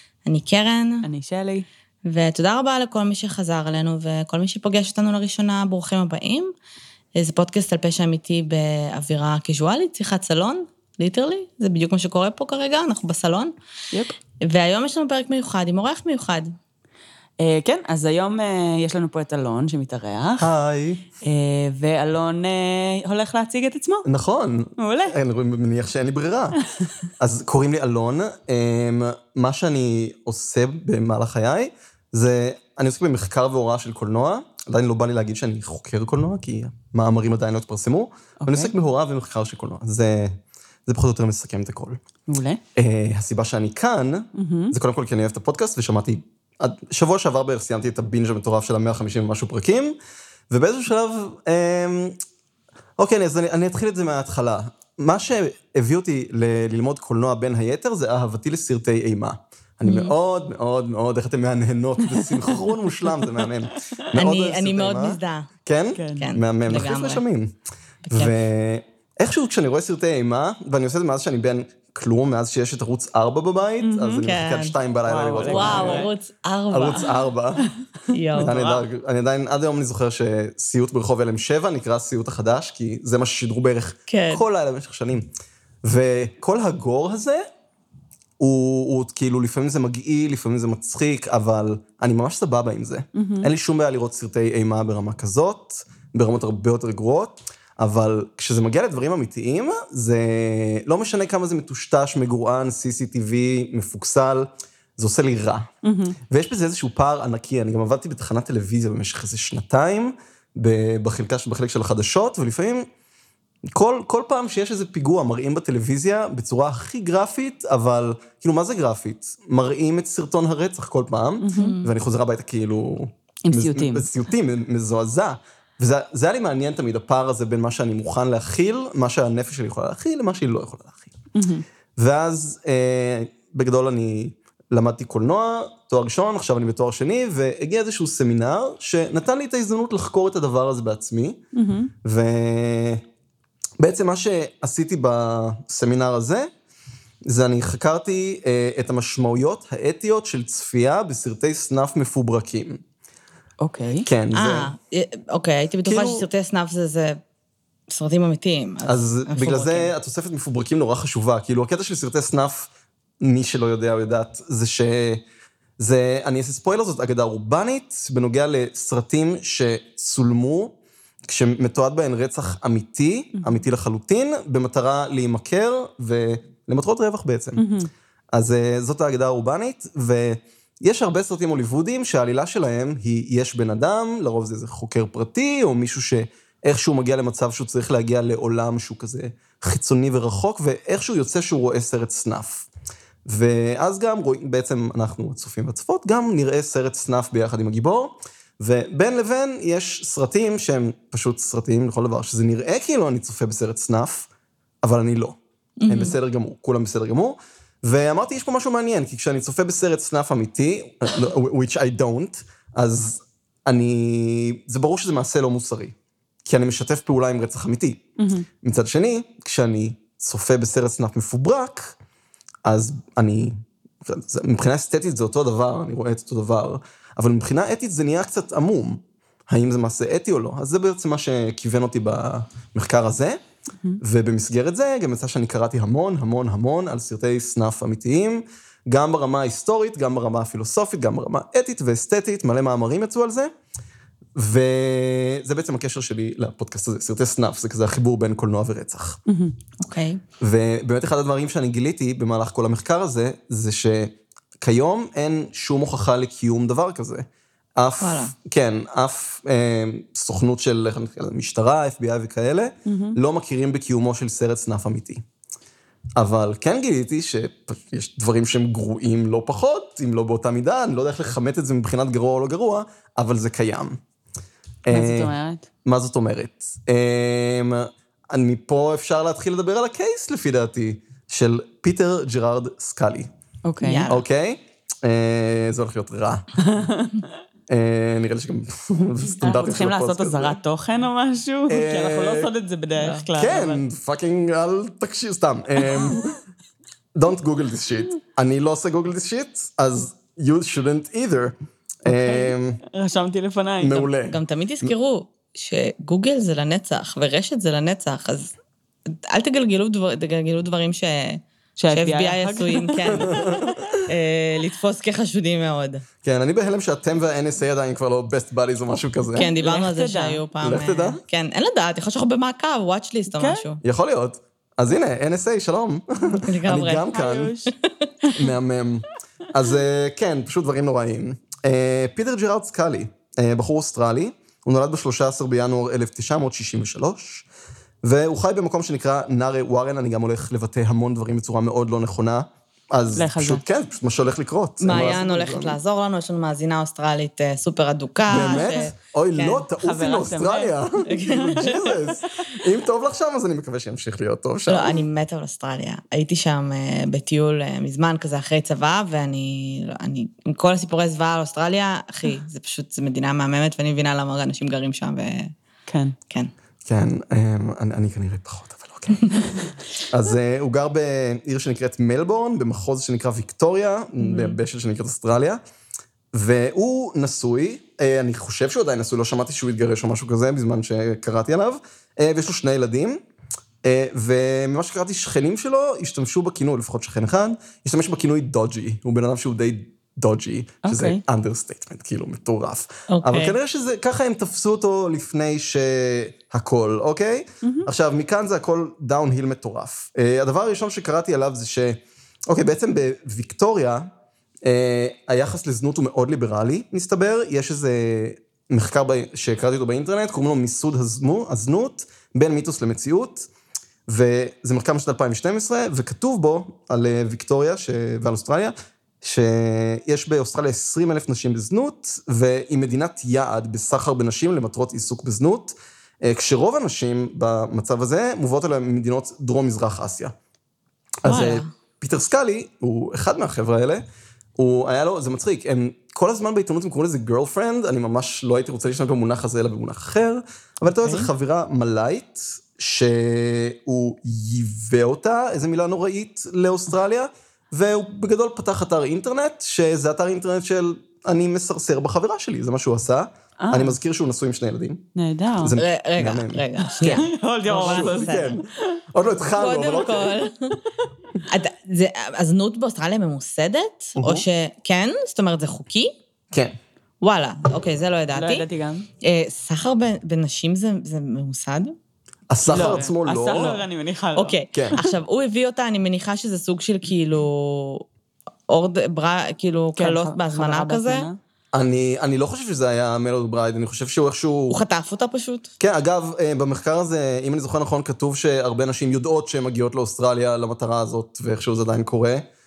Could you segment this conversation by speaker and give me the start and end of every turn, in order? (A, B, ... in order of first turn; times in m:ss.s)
0:00.2-0:01.1 A
0:01.0-0:01.6 B
0:02.0-0:06.5 A
0:07.1-0:13.5 A
0:14.4-0:16.5 A
0:17.4-0:20.5 B
0:20.4-0:21.0 C
0:21.2-0:24.0 B
0:24.0-0:26.6 C
0:24.8-0:25.1 B
0:27.2-0:42.0 C
0:38.4-0:38.7 B
0:42.3-0:42.6 B
0:42.8-0:50.0 C
0:44.4-0:44.7 B
0:50.5-0:52.2 C
0:53.0-1:07.5 C
0:59.9-1:00.1 B
1:02.1-1:03.9 B
1:04.1-1:05.5 A
1:06.0-1:06.3 B
1:06.1-1:07.2 A
1:08.0-1:08.3 A
1:08.1-1:16.1 C
1:13.8-1:14.2 B
1:14.2-1:14.8 A
1:15.0-1:16.1 B
1:15.4-1:17.1 A
1:16.7-1:17.7 C
1:18.1-1:18.6 A
1:18.3-1:18.8 B
1:18.4-1:25.3 C
1:24.1-1:24.4 A
1:25.8-1:27.4 C
1:28.4-1:45.7 C
1:33.1-1:33.5 B
1:45.8-1:46.2 B
1:46.3-1:52.8 C
1:53.7-2:11.1 C
2:01.4-2:01.8 B
2:01.5-2:01.9 A
2:03.4-2:04.1 B
2:11.3-2:11.6 B
2:12.0-2:21.4 C
2:21.5-2:21.9 B
2:22.0-2:23.0 C
2:23.8-2:26.5 C
2:27.2-2:32.8 C
2:33.6-2:34.0 B
2:34.0-2:34.7 C
2:34.3-2:37.2 A
2:35.8-2:36.3 C
2:37.9-2:39.9 A
2:38.8-2:45.2 C
2:45.8-2:50.8 C
2:51.3-2:57.6 C
2:57.6-2:57.9 B
2:58.3-3:12.7 C
3:13.2-3:24.3 C
3:24.8-3:38.0 C
3:25.8-3:26.2 A
3:38.2-3:38.5 B
3:38.6-3:42.0 C
3:42.6-3:53.4 C
3:54.0-4:03.5 C
4:04.4-4:09.2 C
4:09.3-4:09.5 B
4:09.8-4:10.2 A
4:10.4-4:17.2 C
4:17.8-4:25.2 C
4:18.0-4:18.3 A
4:22.8-4:23.2 B
4:26.2-4:34.0 C
4:34.8-4:35.3 C
4:34.9-4:35.7 B
4:35.8-4:43.3 C
4:43.6-4:44.1 B
4:43.8-4:44.2 A
4:44.1-4:46.5 C
4:46.6-4:47.2 B
4:47.7-4:50.6 C
4:49.4-4:53.8 B
4:51.7-4:52.5 C
4:53.0-4:53.2 A
4:53.3-4:56.4 C
4:57.1-5:02.8 C
5:02.1-5:04.1 B
5:03.8-5:04.4 C
5:04.2-5:08.5 A
5:09.1-5:16.0 A
5:11.8-5:13.5 B
5:13.1-5:13.9 C
5:16.2-5:19.5 C
5:19.3-5:23.8 A
5:19.6-5:20.4 B
5:20.6-5:21.2 C
5:23.3-5:23.6 B
5:23.8-5:27.6 C
5:26.4-5:27.1 A
5:27.1-5:27.7 B
5:27.7-5:28.3 A
5:28.3-5:37.5 C
5:38.0-5:45.8 C
5:43.2-5:43.6 B
5:44.8-5:49.6 A
5:48.3-5:55.0 C
5:48.3-5:48.8 B
5:49.7-5:50.7 B
5:51.1-5:52.0 A
5:54.7-6:05.5 A
6:05.9-6:06.1 B
6:06.8-6:09.4 C
6:10.1-6:15.6 C
6:14.3-6:14.5 B
6:16.3-6:23.2 C
6:23.8-6:44.1 C
6:30.8-6:31.2 B
6:33.1-6:33.6 A
6:44.6-6:53.5 C
6:54.1-7:10.3 C
7:11.2-7:14.0 C
7:11.2-7:11.7 A
7:14.6-7:40.4 C
7:20.9-7:21.3 B
7:33.6-7:34.0 B
7:35.2-7:35.8 B
7:35.8-7:38.6 A
7:37.1-7:38.5 B
7:39.5-7:40.8 A
7:41.4-7:46.1 A
7:44.2-7:44.4 C
7:46.5-7:46.8 C
7:47.2-7:48.6 A
7:48.3-7:49.0 B
7:49.2-7:51.9 A
7:52.5-7:53.8 C
7:52.7-7:55.1 B
7:54.3-7:58.0 A
7:58.7-8:01.3 A
8:00.0-8:01.4 B
8:01.7-8:04.8 C
8:04.7-8:05.7 A
8:05.8-8:12.4 C